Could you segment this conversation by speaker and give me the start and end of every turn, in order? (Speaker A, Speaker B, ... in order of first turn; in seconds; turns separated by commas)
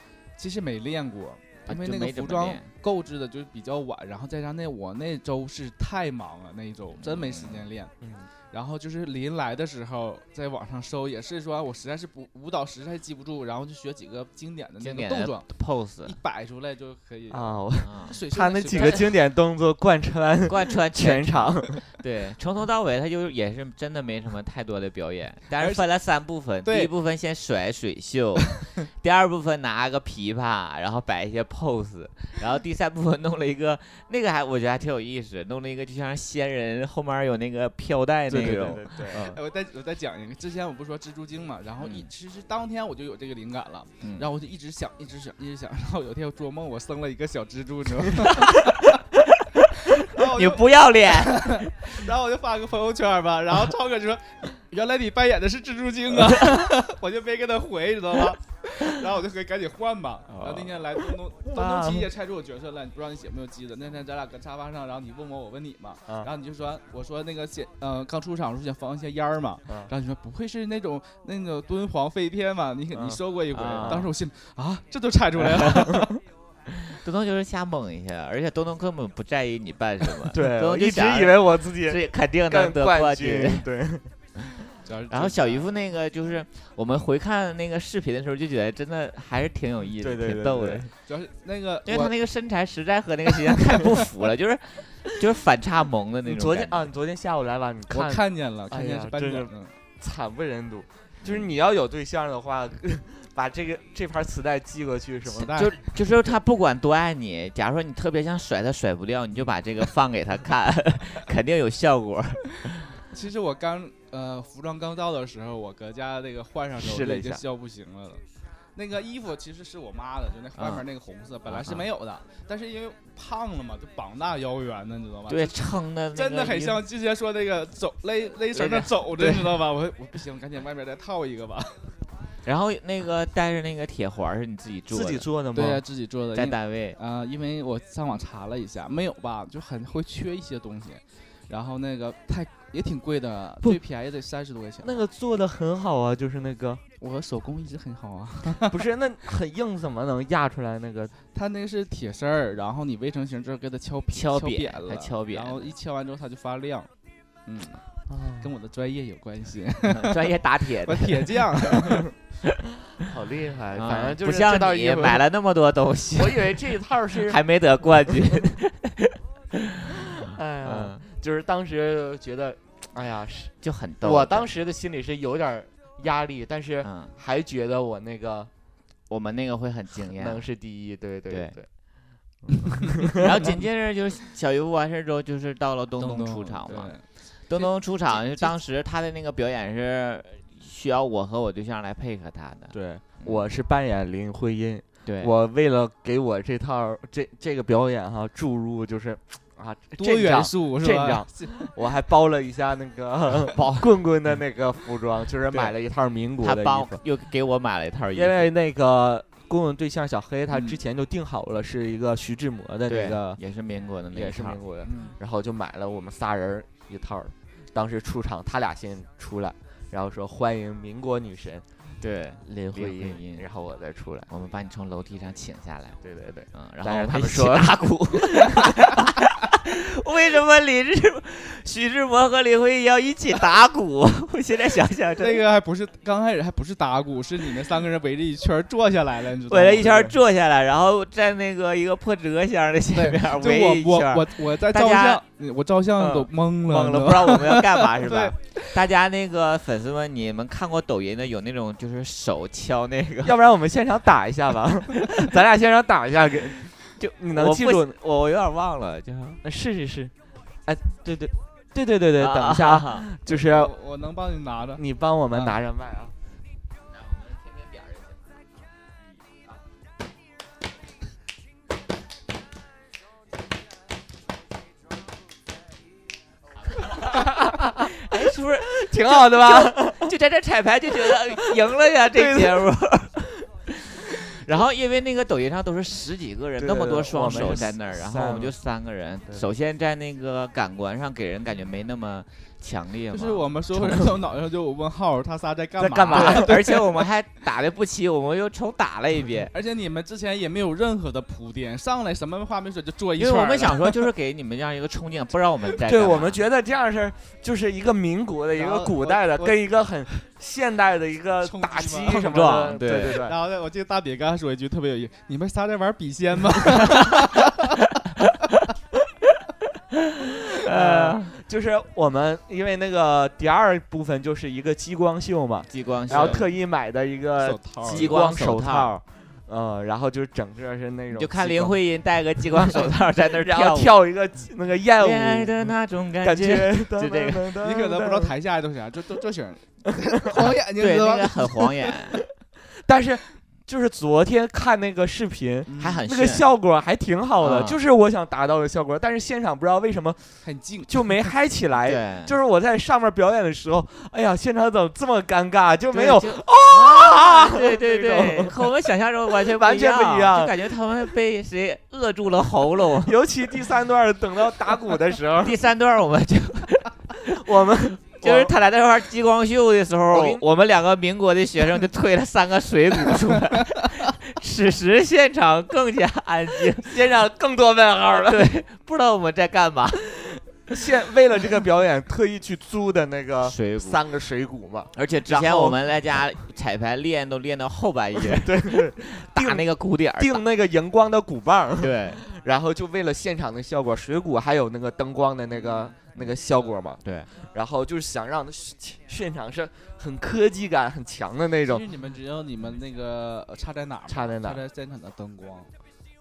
Speaker A: 0.4-7.9, Speaker B: 1.7-2.7, Speaker B: 7.0-7.6, Speaker C: 8.0-8.3, Speaker A: 8.5-15.5, Speaker B: 14.8-16.2, Speaker A: 16.1-19.1, Speaker C: 17.3-21.8, Speaker B: 17.8-18.2, Speaker B: 18.7-19.0, Speaker B: 20.5-39.3, Speaker A: 25.6-25.8, Speaker A: 26.6-26.9, Speaker C: 38.3-39.4, Speaker A: 38.3-48.6, Speaker B: 41.8-42.1, Speaker B: 48.2-48.9, Speaker A: 50.0-76.1, Speaker B: 50.0-51.7, Speaker C: 60.3-60.8, Speaker C: 61.5-62.1, Speaker C: 72.9-73.2, Speaker B: 73.5-74.1, Speaker C: 75.6-76.2, Speaker B: 76.9-83.7, Speaker C: 80.3-84.1, Speaker A: 84.8-85.7, Speaker B: 85.1-90.9, Speaker C: 90.0-90.9, Speaker A: 91.1-92.1, Speaker B: 91.9-96.9, Speaker C: 96.2-105.6, Speaker A: 97.9-99.7, Speaker A: 105.3-105.9, Speaker B: 105.4-112.8, Speaker A: 113.1-118.2, Speaker C: 116.8-117.4, Speaker A: 118.8-125.6, Speaker B: 120.6-120.8, Speaker B: 121.5-121.8, Speaker B: 125.3-126.8, Speaker A: 126.1-132.0, Speaker B: 128.5-129.6, Speaker B: 132.4-135.3, Speaker C: 134.9-135.8, Speaker A: 135.5-145.0, Speaker B: 136.3-137.0, Speaker C: 144.8-146.8, Speaker A: 147.0-148.8, Speaker C: 148.6-151.1, Speaker A: 151.3-156.9, Speaker B: 154.1-155.7, Speaker A: 157.5-157.8, Speaker C: 158.1-158.5, Speaker A: 158.4-160.2, Speaker B: 160.0-161.3, Speaker A: 160.8-162.1, Speaker C: 163.0-165.2, Speaker B: 163.7-169.1, Speaker C: 166.2-167.4, Speaker C: 170.2-178.5, Speaker B: 170.6-171.0, Speaker B: 173.6-174.5, Speaker B: 176.8-177.1, Speaker B: 179.1-180.4, Speaker C: 180.1-181.7, Speaker B: 181.3-181.6, Speaker C: 182.5-183.5, Speaker B: 183.2-193.4, Speaker A: 186.0-188.5, Speaker C: 192.7-207.0, Speaker B: 195.1-195.3, Speaker A: 200.0-201.7, Speaker B: 206.4-208.5, Speaker C: 208.1-213.4, Speaker A: 210.5-210.8, Speaker B: 212.9-214.6, Speaker C: 214.1-221.7, Speaker A: 214.8-215.2, Speaker B: 222.0-223.4, Speaker C: 222.4-224.3, Speaker B: 224.3-226.0, Speaker C: 226.0-228.8, Speaker B: 226.5-235.4, Speaker A: 235.2-239.9, Speaker B: 239.5-245.2, Speaker C: 239.8-240.1, Speaker A: 242.9-248.6, Speaker B: 246.0-253.4, Speaker C: 253.2-257.9, Speaker B: 257.0-259.4, Speaker C: 259.4-260.1, Speaker C: 260.7-263.7, Speaker B: 262.2-263.1, Speaker A: 263.3-265.6, Speaker C: 264.8-266.1, Speaker B: 267.1-268.1, Speaker B: 277.0-277.3, Speaker C: 277.0-277.9, Speaker B: 278.0-283.7, Speaker C: 278.7-280.1, Speaker C: 282.1-282.7, Speaker B: 284.4-294.2, Speaker C: 286.6-288.5, Speaker A: 293.1-296.8, Speaker C: 295.8-296.6, Speaker B: 296.1-299.5, Speaker A: 299.5-304.1, Speaker B: 303.2-306.4, Speaker C: 305.8-313.4, Speaker A: 308.6-309.7, Speaker A: 311.4-317.6, Speaker B: 312.2-313.2, Speaker B: 320.6-321.3, Speaker C: 320.7-331.8, Speaker B: 325.7-326.4, Speaker A: 326.1-326.5, Speaker A: 327.4-328.1, Speaker B: 327.9-328.9, Speaker B: 331.2-334.0, Speaker C: 333.4-338.3, Speaker B: 335.0-337.5, Speaker A: 337.6-341.9, Speaker B: 340.8-342.2, Speaker C: 342.9-358.6, Speaker A: 345.7-346.1, Speaker B: 345.8-346.5, Speaker B: 347.4-347.8, Speaker A: 350.4-351.1, Speaker B: 351.9-352.3, Speaker B: 355.9-363.1, Speaker C: 359.4-360.6, Speaker C: 363.0-365.6, Speaker B: 365.4-366.9, Speaker C: 367.3-368.5, Speaker B: 368.2-376.9, Speaker C: 370.1-370.4, Speaker C: 376.9-378.6, Speaker B: 378.3-380.4, Speaker C: 380.7-385.8, Speaker B: 383.4-384.0, Speaker B: 385.0-390.4, Speaker C: 388.2-401.9, Speaker B: 391.8-392.2, Speaker B: 397.0-397.3, Speaker A: 401.7-405.7, Speaker C: 404.1-404.6